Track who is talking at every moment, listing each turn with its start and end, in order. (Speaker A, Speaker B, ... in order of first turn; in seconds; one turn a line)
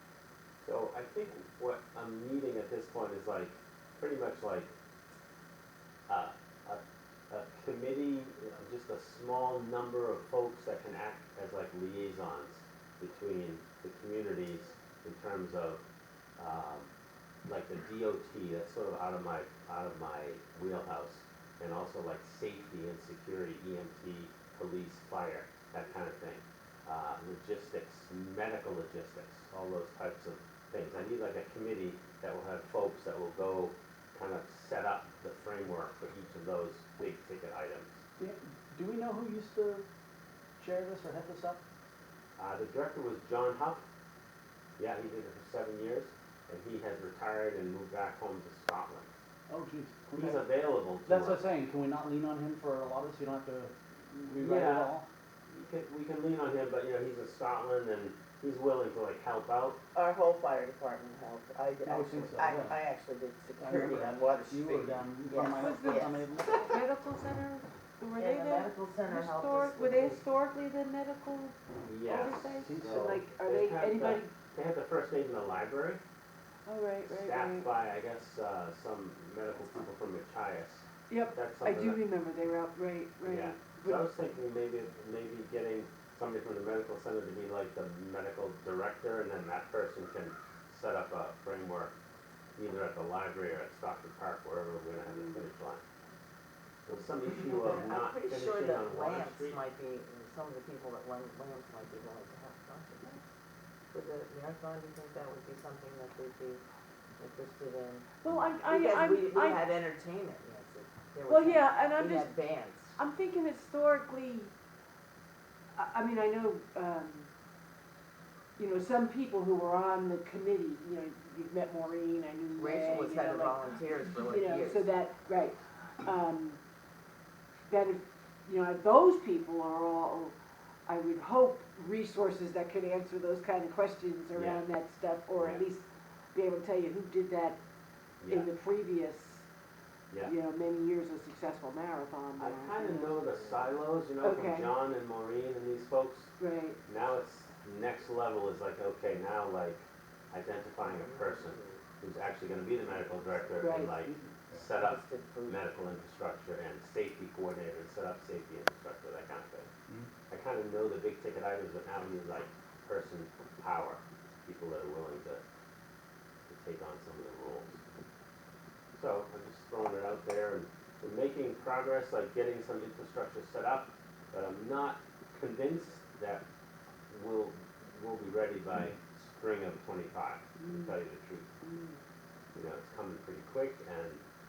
Speaker A: 0.6-4.7
Speaker A: 6.1-15.8
Speaker A: 16.4-16.9
Speaker A: 17.5-37.9
Speaker B: 38.2-39.9
Speaker B: 40.6-41.6
Speaker A: 42.4-43.8
Speaker A: 44.8-49.1
Speaker B: 49.5-50.4
Speaker A: 50.1-51.4
Speaker B: 51.0-55.1
Speaker A: 54.4-55.0
Speaker A: 55.5-59.8
Speaker C: 60.0-66.2
Speaker B: 61.9-62.8
Speaker B: 63.6-66.8
Speaker D: 65.6-66.1
Speaker D: 66.6-71.5
Speaker C: 68.2-70.2
Speaker A: 71.8-76.0
Speaker D: 72.1-74.3
Speaker B: 72.6-73.3
Speaker D: 76.7-77.7
Speaker A: 77.1-82.0
Speaker D: 81.1-84.1
Speaker A: 83.2-91.9
Speaker A: 92.6-95.8
Speaker A: 96.9-99.6
Speaker C: 97.5-103.2
Speaker C: 103.9-106.6
Speaker C: 107.2-113.0
Speaker D: 108.2-109.7
Speaker D: 111.3-112.3
Speaker D: 113.0-114.5
Speaker D: 115.8-117.3
Speaker D: 118.6-123.6
Speaker C: 122.6-124.9
Speaker D: 124.2-126.6
Speaker D: 127.7-130.3
Speaker D: 130.9-135.8
Speaker A: 134.3-134.7
Speaker A: 135.4-135.6
Speaker D: 136.3-137.6
Speaker A: 138.2-138.5
Speaker D: 138.3-139.4
Speaker D: 140.2-143.3
Speaker A: 142.4-146.3
Speaker D: 144.2-144.7
Speaker D: 146.4-146.8
Speaker A: 146.9-159.7
Speaker C: 151.0-151.8
Speaker D: 153.6-154.0
Speaker B: 154.0-154.5
Speaker C: 154.7-155.6
Speaker A: 160.3-165.4
Speaker A: 166.5-167.8
Speaker A: 169.0-176.4
Speaker A: 177.1-181.5
Speaker D: 181.6-182.0
Speaker A: 182.6-184.2